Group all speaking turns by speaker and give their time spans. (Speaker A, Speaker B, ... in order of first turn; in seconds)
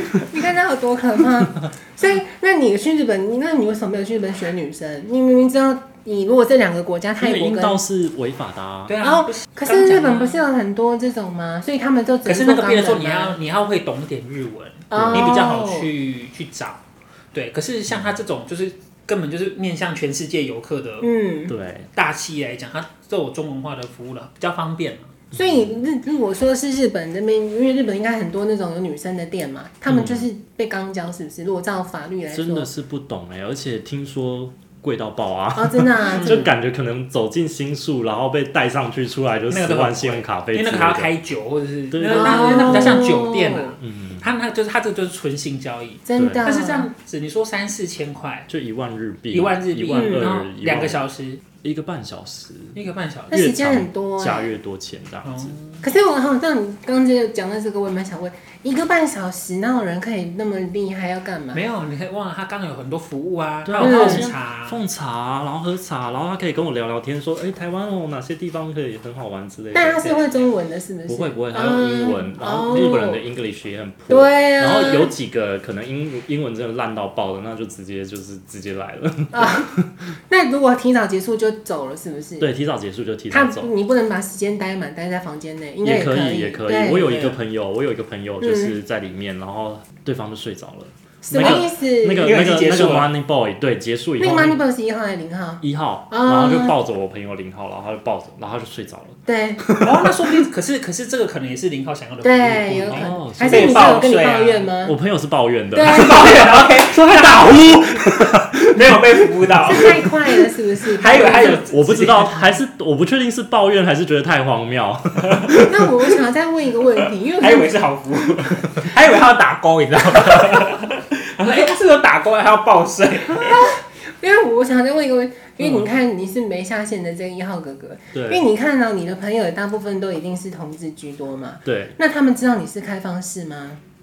Speaker A: 0.1-7.8, 9.0-13.3, 14.9-15.9, 21.0-21.5, 25.3-32.7, 35.5-36.5, 42.1-43.7, 46.0-46.9, 49.9-50.2, 53.3-54.5, 55.8-61.6, 63.8-64.3, 69.7-73.2, 74.1-75.1, 79.3-79.7, 80.3-82.5, 83.3-87.2, 88.4-88.8, 91.2-92.4, 94.2-96.7, 99.2-99.6, 102.2-105.0, 105.7-106.3, 109.6-111.6, 115.7-117.7, 123.4-133.8
Speaker B: 7.2-8.9, 14.9-15.4, 21.5-21.9, 25.3-25.7, 29.9-30.3, 32.3-41.1, 41.9-43.0, 43.8-44.3, 46.1-46.5, 48.5-51.0, 51.6-52.8, 53.3-55.5, 63.6-70.1, 71.1-80.1, 82.4-83.7, 85.8-94.6, 95.6-100.4, 102.9-104.0, 104.8-110.1, 111.3-116.1, 128.1-128.4, 131.6-132.0
Speaker C: 8.9-10.4, 12.2-16.8, 17.3-21.1, 21.9-25.1, 39.5-48.5, 49.3-51.4, 52.7-53.4, 55.2-55.8, 61.5-64.8, 70.0-70.5, 87.0-87.4, 91.3-93.1, 99.8-104.7, 105.8-110.1, 111.0-112.5, 115.2-115.5, 117.4-123.7